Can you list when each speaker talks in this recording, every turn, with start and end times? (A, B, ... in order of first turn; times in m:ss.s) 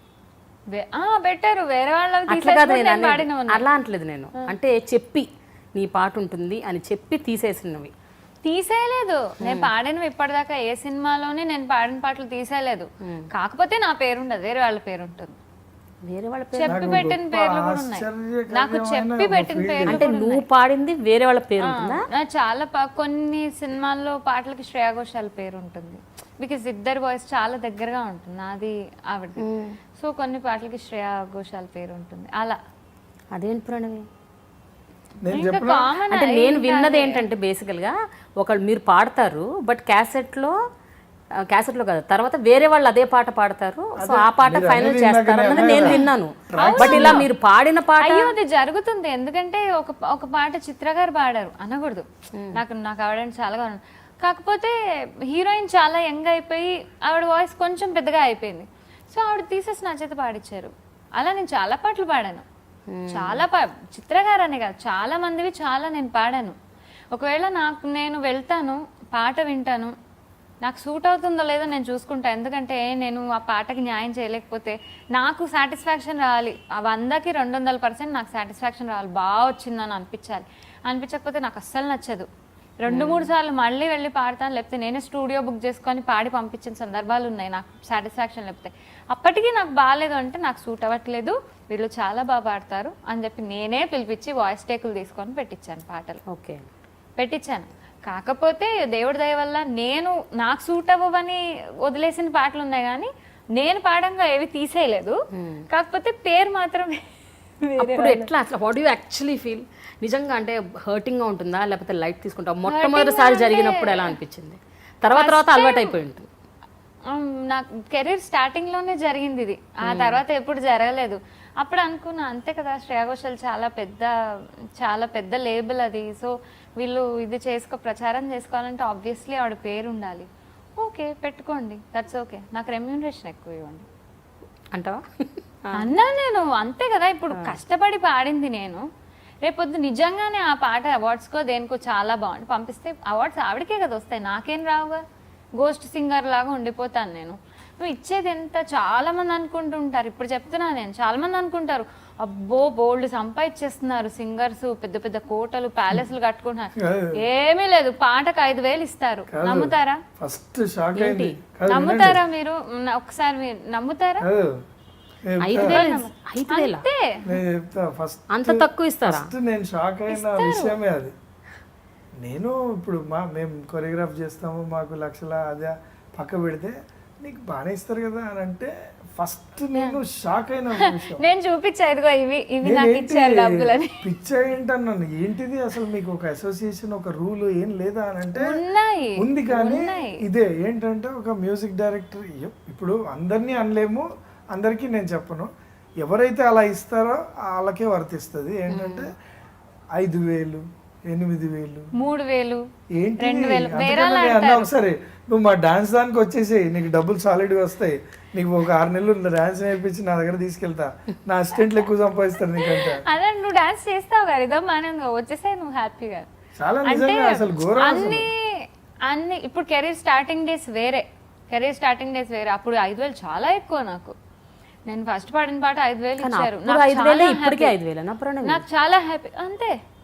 0:00.7-0:03.6 A
0:02.3-0:07.9 B
0:08.4-0:15.4 A
0:09.4-0:09.7 B
0:16.1-0:17.1 B
0:16.5-0:20.4 A
0:16.7-0:20.1 C
0:19.9-0:22.0 B
0:21.6-0:29.4 A
0:29.4-0:29.8 B
0:30.0-0:32.6 A
0:33.3-0:34.1 B
0:35.2-0:35.9 C
0:35.3-0:37.2 A
0:36.1-0:40.6 B
0:41.5-0:48.4 B
0:44.0-0:47.3 C
0:45.6-0:46.0 A
0:46.6-0:47.3 A
0:48.0-0:54.8 A
0:55.3-1:02.5 A
1:02.9-1:03.4 B
1:03.1-1:06.6 A
1:07.1-1:09.9 A
1:10.6-1:22.3 A
1:22.8-1:36.2 A
1:22.9-1:23.3 B
1:36.3-1:36.6 B
1:37.2-1:45.2 A
1:45.3-1:45.6 B
1:45.7-1:47.0 A
1:47.6-1:48.3 A
1:47.8-1:56.3 B
1:52.6-1:54.2 A
1:55.1-1:56.0 A
1:57.1-2:04.1 A
1:59.8-2:00.2 B
2:04.8-2:10.3 A
2:10.8-2:13.9 A
2:14.7-2:15.0 B
2:15.6-2:15.9 B
2:15.7-2:18.8 A
2:19.4-2:25.0 A
2:25.6-2:40.0 A
2:36.8-2:37.2 C
2:39.3-2:42.2 C
2:41.0-2:41.4 B
2:41.7-2:44.3 A
2:44.2-2:44.5 C
2:45.2-2:45.8 C
2:45.4-2:46.8 B
2:45.6-2:47.4 A
2:47.2-2:51.1 C
2:48.3-2:49.3 B
2:50.1-2:50.8 A
2:52.2-3:01.2 C
3:00.8-3:04.0 A
3:02.6-3:08.6 C
3:08.4-3:10.2 A
3:09.2-3:15.5 C
3:16.0-3:19.1 C
3:18.7-3:19.1 B
3:20.0-3:21.9 C
3:22.0-3:22.6 A
3:23.0-3:33.0 C
3:23.2-3:24.7 A
3:32.6-3:36.3 A
3:36.6-3:38.3 C
3:36.8-3:38.5 A
3:39.1-3:44.1 A
3:44.9-3:47.8 A
3:46.2-3:48.6 B
3:48.4-3:49.7 A